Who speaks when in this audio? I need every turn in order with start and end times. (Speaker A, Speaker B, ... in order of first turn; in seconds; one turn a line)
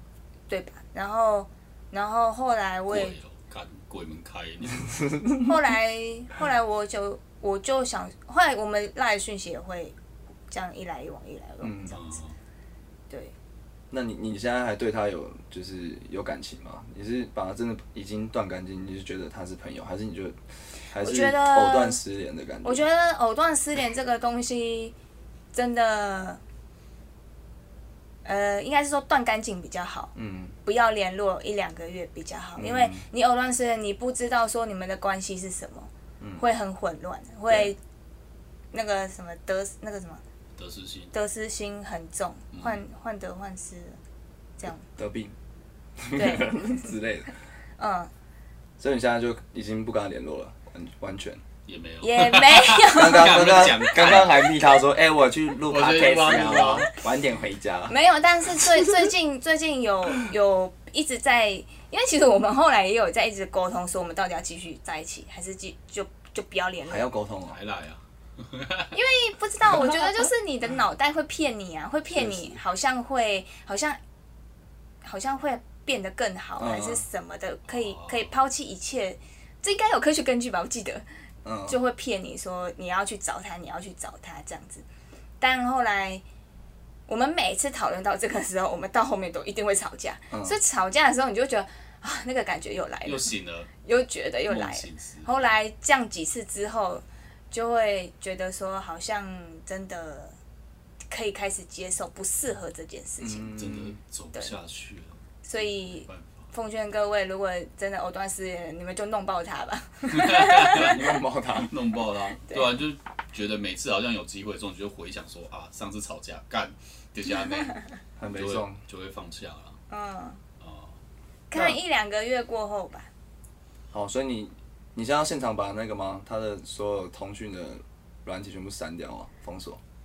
Speaker A: 0.5-3.1
Speaker B: 2.9-5.1
Speaker A: 5.4-9.9
Speaker A: 10.5-11.8
Speaker C: 11.6-12.0
Speaker B: 11.9-12.3
Speaker C: 13.9-20.4
Speaker C: 20.9-22.8
Speaker A: 21.0-22.0
Speaker A: 22.6-24.9
Speaker A: 25.5-26.4
Speaker A: 28.2-30.1
Speaker C: 30.1-30.6
Speaker A: 30.6-37.8
Speaker C: 32.6-33.0
Speaker A: 38.7-40.2
Speaker B: 40.6-41.1
Speaker A: 41.1-44.0
Speaker B: 42.5-42.8
Speaker A: 44.6-44.9
Speaker C: 45.0-45.4
Speaker C: 46.0-47.3
Speaker A: 46.1-46.9
Speaker A: 47.8-48.1
Speaker C: 48.8-51.4
Speaker B: 51.7-54.5
Speaker A: 52.0-53.4
Speaker C: 52.9-57.9
Speaker B: 55.7-56.9
Speaker A: 57.9-67.1
Speaker C: 66.9-67.6
Speaker B: 67.5-68.9
Speaker A: 68.9-74.0
Speaker C: 72.1-72.6
Speaker A: 75.0-81.0
Speaker C: 76.6-77.0
Speaker B: 77.7-78.3
Speaker C: 81.5-81.8
Speaker A: 81.7-84.8
Speaker A: 85.4-86.2
Speaker A: 87.1-93.3
Speaker C: 90.3-90.6
Speaker B: 93.0-93.7
Speaker A: 93.8-100.4
Speaker B: 94.5-95.5
Speaker A: 101.1-103.5
Speaker C: 103.2-104.0
Speaker B: 103.6-106.5
Speaker A: 105.5-111.0
Speaker B: 110.1-119.8
Speaker C: 110.7-111.7
Speaker C: 118.2-118.8
Speaker A: 119.9-120.4
Speaker B: 120.6-121.0
Speaker A: 121.5-123.1
Speaker C: 123.9-129.8